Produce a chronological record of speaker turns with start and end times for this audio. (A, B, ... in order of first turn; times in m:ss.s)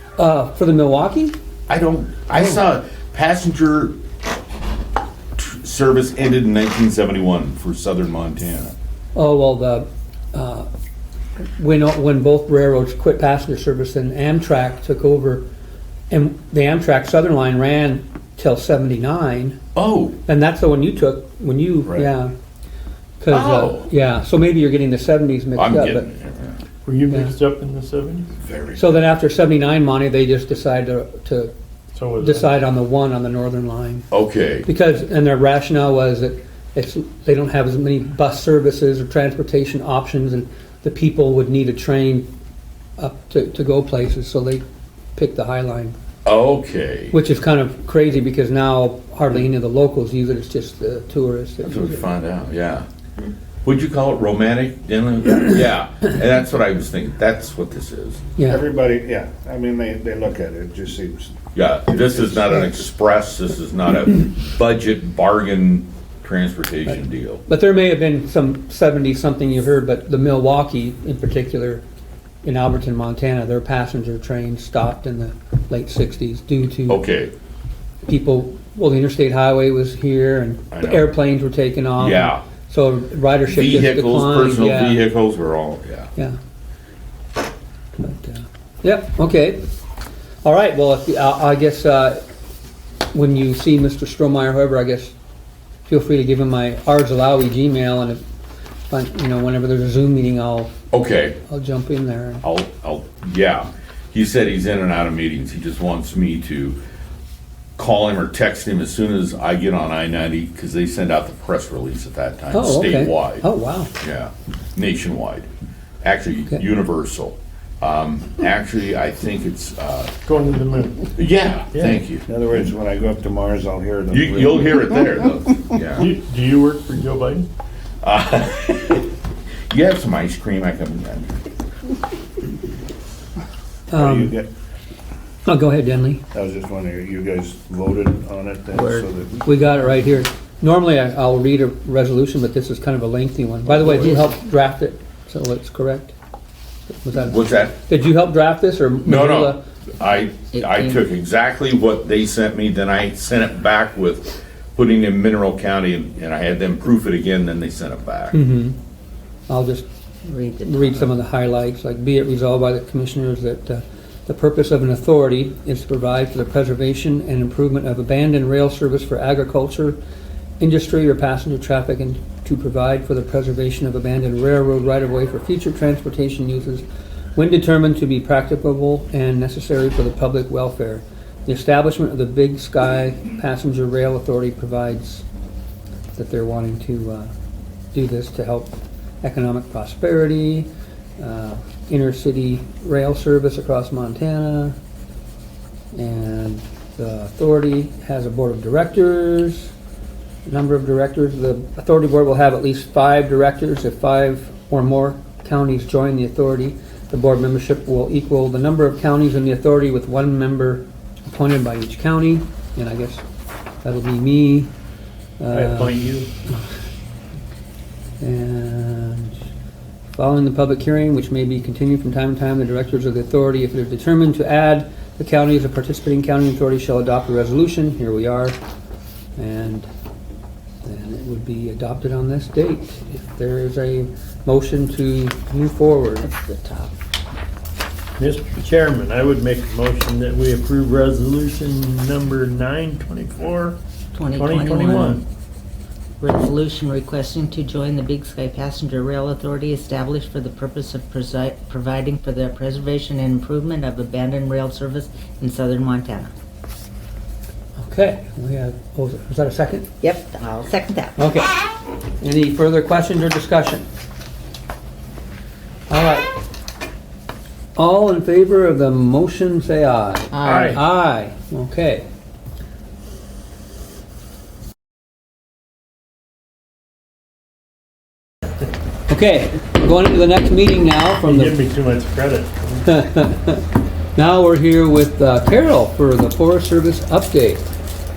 0:00.2-0:01.3 A
0:01.7-0:04.0 B
0:05.4-0:08.7 B
0:09.1-0:10.7 A
0:11.6-0:15.4 A
0:16.1-0:19.6 A
0:19.7-0:20.2 B
0:20.3-0:22.3 A
0:21.8-0:22.1 B
0:23.2-0:26.1 A
0:23.3-0:23.9 B
0:25.6-0:26.6 B
0:26.8-0:28.3 C
0:28.4-0:29.0 B
0:28.8-0:31.5 A
0:31.9-0:32.5 C
0:32.2-0:34.1 A
0:34.1-0:34.7 B
0:34.6-0:42.3 A
0:43.0-0:44.6 A
0:45.2-0:45.9 A
0:46.2-0:47.2 B
0:47.1-0:52.0 A
0:51.6-0:52.8 B
0:53.6-0:58.2 B
0:58.4-0:58.6 A
0:58.5-1:01.4 D
1:01.5-1:07.4 B
1:01.9-1:02.5 D
1:07.5-1:11.8 A
1:12.4-1:17.0 A
1:16.9-1:17.3 B
1:18.0-1:25.0 A
1:20.7-1:21.1 B
1:22.0-1:22.4 B
1:23.5-1:26.1 B
1:28.0-1:29.6 A
1:30.4-1:32.2 A
1:33.1-1:35.1 A
1:35.8-1:38.2 A
1:38.9-1:40.7 A
1:40.9-1:41.4 B
1:41.5-1:42.4 A
1:42.4-1:46.8 B
1:47.8-1:55.5 B
1:52.5-1:53.9 A
1:56.0-2:00.1 B
2:00.2-2:01.1 C
2:01.2-2:02.2 B
2:02.3-2:04.8 D
2:04.1-2:06.1 B
2:06.0-2:07.5 C
2:08.0-2:09.1 B
2:09.7-2:11.3 B
2:13.9-2:14.3 A
2:13.9-2:14.5 D
2:15.4-2:16.2 A
2:16.3-2:19.5 D
2:19.4-2:26.1 A
2:26.9-2:29.6 A
2:27.2-2:27.8 B
2:29.0-2:38.4 B
2:30.5-2:31.0 E
2:38.3-2:38.8 A
2:39.5-2:39.8 A
2:40.2-2:41.1 E
2:40.6-2:50.0 A
2:50.6-2:56.8 A
2:57.3-3:05.2 A
3:06.2-3:07.3 A
3:07.9-3:14.8 A
3:15.9-3:19.7 A
3:20.4-3:33.2 A
3:33.8-3:34.7 A
3:35.4-3:36.0 A
3:35.5-3:36.3 C
3:38.2-3:39.4 A
3:40.1-3:48.6 A
3:49.4-3:49.9 A
3:50.8-3:56.3 A
3:56.2-3:56.9 E
3:58.2-4:03.8 C
4:04.1-4:05.2 E
4:04.3-4:05.2 C
4:06.2-4:16.3 E
4:17.8-4:19.9 A
4:20.0-4:21.2 E
4:21.2-4:21.5 A
4:22.2-4:23.8 A
4:25.9-4:26.3 A
4:27.8-4:32.0 A
4:30.3-4:30.8 E
4:30.4-4:30.8 C
4:39.1-4:41.6 A
4:41.2-4:42.9 C
4:42.8-4:47.6 A